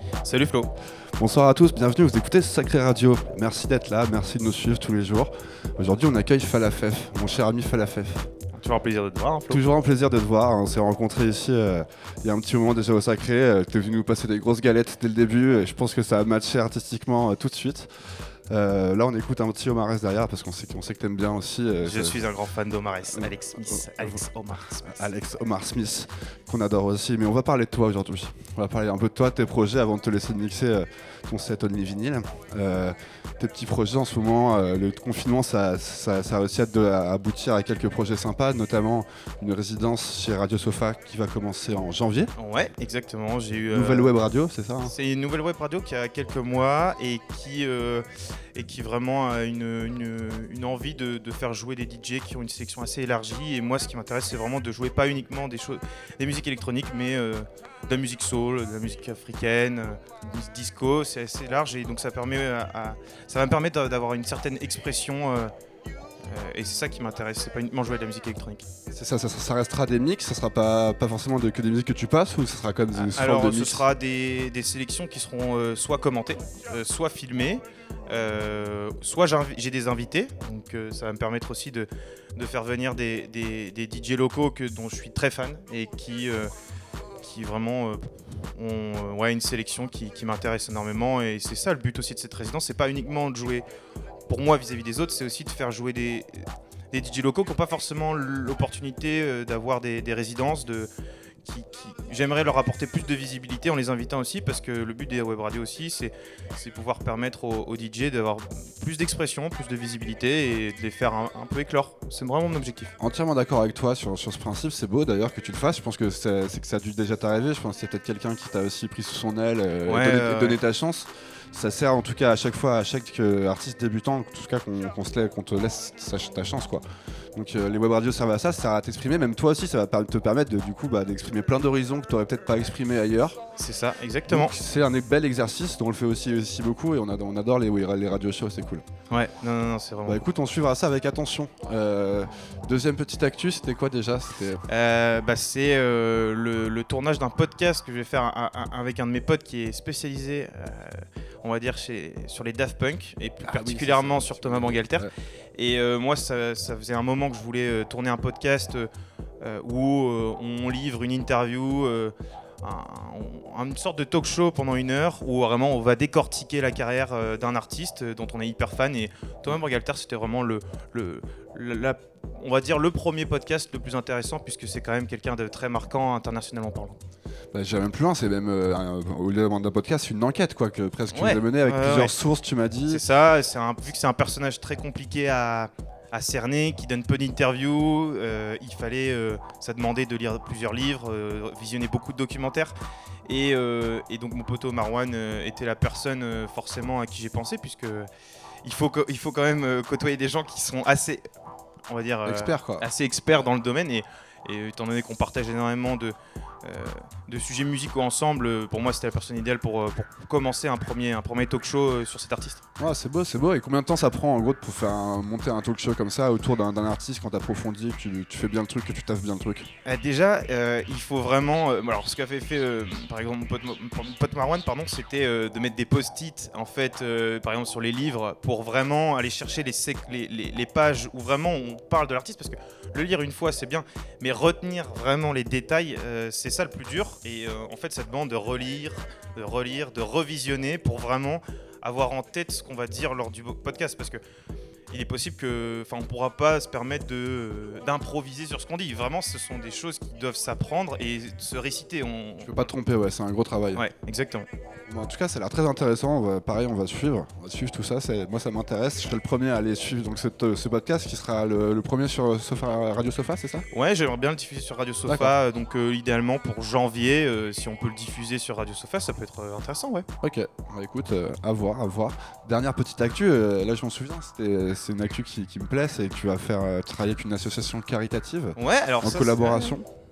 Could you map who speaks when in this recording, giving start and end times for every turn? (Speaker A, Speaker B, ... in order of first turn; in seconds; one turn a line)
Speaker A: 0.2-0.7
Speaker B: 1.2-8.3
Speaker A: 8.6-9.6
Speaker B: 9.5-17.9
Speaker B: 18.5-22.3
Speaker A: 21.9-24.8
Speaker B: 23.1-24.2
Speaker B: 24.8-42.3
Speaker A: 42.4-44.1
Speaker B: 43.7-44.9
Speaker A: 44.9-65.5
Speaker A: 66.2-68.7
Speaker B: 68.9-73.8
Speaker A: 72.9-86.5
Speaker A: 87.2-93.7
Speaker A: 94.3-100.9
Speaker A: 101.5-112.9
Speaker B: 113.0-133.4
Speaker A: 119.9-120.6
Speaker A: 133.6-134.5
Speaker B: 134.3-138.8
Speaker A: 139.1-140.2
Speaker B: 140.1-144.7
Speaker A: 144.7-158.9
Speaker B: 153.4-155.1
Speaker A: 159.4-177.0
Speaker B: 177.5-183.0
Speaker A: 181.1-182.1
Speaker A: 182.9-192.7
Speaker A: 193.3-198.1
Speaker A: 198.6-201.2
Speaker A: 201.9-212.7
Speaker B: 202.3-202.9
Speaker B: 212.8-219.7
Speaker A: 219.8-244.2
Speaker A: 244.9-252.7
Speaker B: 252.4-253.9
Speaker A: 253.8-254.5
Speaker B: 254.9-263.7
Speaker A: 263.7-270.1
Speaker B: 265.1-265.4
Speaker B: 270.2-279.9
Speaker A: 278.6-279.8